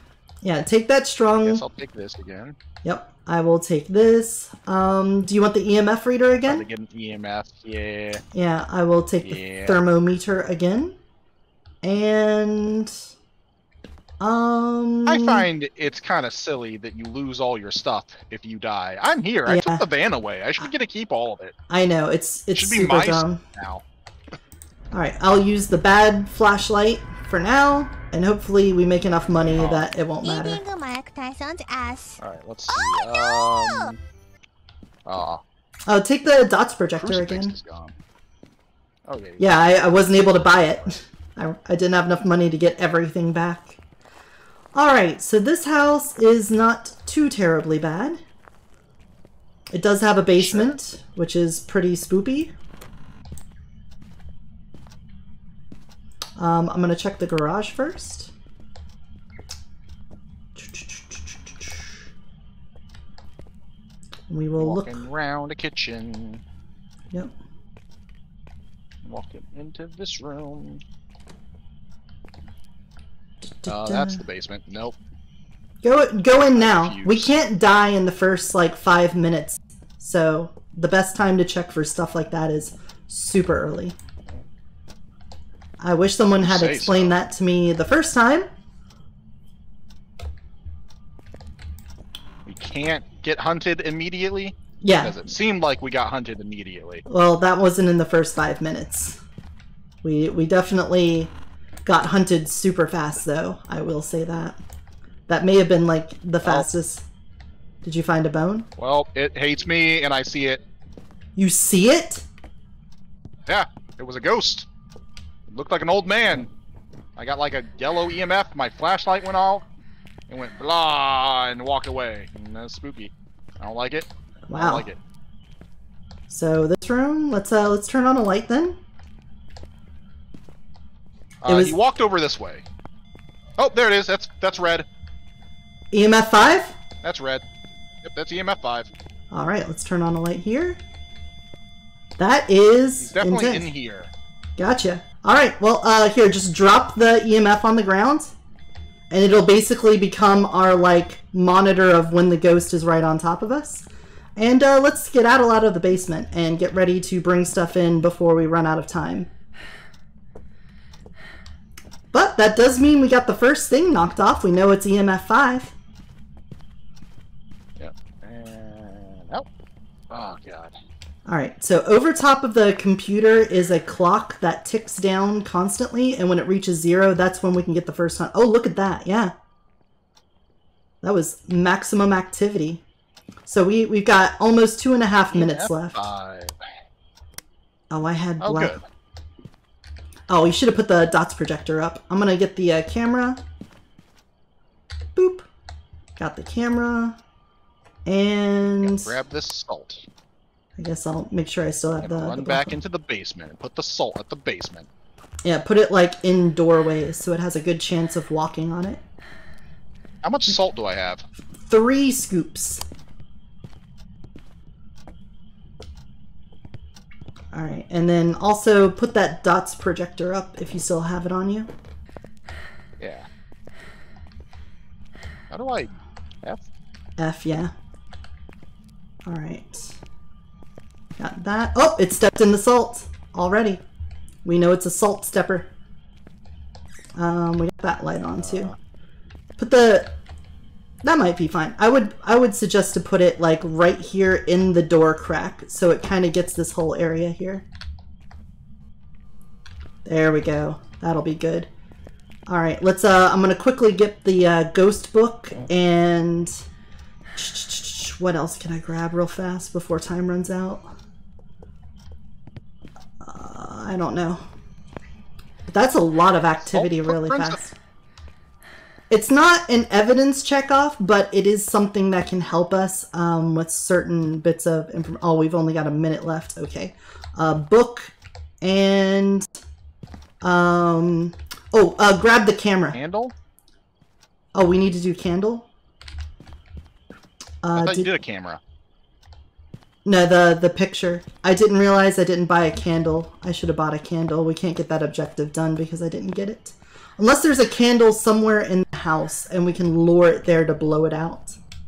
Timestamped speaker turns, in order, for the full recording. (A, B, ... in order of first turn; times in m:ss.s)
0:00.4-0:01.6 A
0:01.4-0:02.6 B
0:02.8-0:06.6 A
0:06.5-0:08.2 B
0:08.3-0:11.0 A
0:09.2-0:09.8 B
0:11.8-0:13.0 A
0:14.2-0:15.5 A
0:15.1-0:21.6 B
0:19.5-0:19.8 A
0:21.7-0:23.4 A
0:22.6-0:23.8 B
0:24.9-0:30.6 A
0:29.5-0:29.9 B
0:30.2-0:33.9 C
0:32.2-0:34.0 B
0:35.0-0:35.4 B
0:35.9-0:37.6 A
0:37.0-0:38.0 B
0:39.0-0:40.8 B
0:39.4-0:43.8 A
0:44.7-0:48.2 A
0:49.7-0:52.5 A
0:50.4-0:50.8 B
0:56.4-0:58.3 A
1:00.6-1:01.9 A
1:04.3-1:05.0 A
1:04.6-1:06.4 B
1:09.0-1:10.8 B
1:13.5-1:14.2 A
1:13.6-1:15.0 B
1:15.8-1:24.0 A
1:16.5-1:17.3 B
1:25.8-1:28.5 A
1:26.3-1:27.2 B
1:32.4-1:37.1 B
1:34.8-1:35.3 A
1:37.1-1:39.2 A
1:40.0-1:41.3 A
1:41.8-1:44.6 A
1:45.3-1:47.0 A
1:46.4-1:46.7 B
1:47.8-1:48.7 A
1:48.8-1:50.6 B
1:51.4-1:52.2 A
1:53.5-1:54.7 B
1:55.5-1:56.5 B
1:57.2-1:59.7 B
2:00.3-2:05.0 B
2:04.5-2:04.9 A
2:06.3-2:08.8 A
2:11.4-2:12.6 B
2:11.5-2:11.8 A
2:13.6-2:14.9 B
2:15.9-2:16.8 A
2:17.0-2:17.4 B
2:18.0-2:18.9 B
2:19.3-2:20.8 A
2:22.2-2:23.7 A
2:23.0-2:24.1 B
2:24.6-2:28.3 A
2:29.1-2:39.3 A
2:42.1-2:45.7 A
2:47.8-2:49.5 B
2:50.1-2:50.8 B
2:51.3-2:59.3 A
3:01.0-3:02.8 A
3:03.5-3:06.1 A
3:05.3-3:06.6 B
3:07.9-3:08.8 A
3:08.4-3:08.8 B
3:10.3-3:13.4 A
3:15.2-3:15.5 A
3:16.2-3:17.2 A
3:18.1-3:19.2 A
3:18.8-3:20.1 B
3:20.8-3:22.7 A
3:22.0-3:24.9 B
3:25.4-3:29.0 A
3:30.2-3:31.2 B
3:31.7-3:32.8 A
3:37.5-3:41.7 A
3:43.0-3:43.3 B
3:45.5-3:46.6 B
3:47.2-3:47.7 A
3:49.3-3:50.0 A
3:51.2-3:53.8 A
3:54.4-3:55.7 A
3:57.2-3:58.7 A
3:58.3-3:58.8 B
3:59.6-4:00.2 A
4:01.0-4:07.7 A
4:10.0-4:11.7 A
4:12.5-4:16.6 A
4:17.4-4:20.9 A
4:23.2-4:24.4 A
4:25.7-4:27.7 A
4:26.6-4:27.6 B
4:29.1-4:39.5 A
4:40.4-4:43.0 A
4:42.9-4:43.4 B
4:44.5-4:45.7 A
4:47.6-4:48.1 A
4:47.8-4:48.6 B
4:50.0-5:01.6 A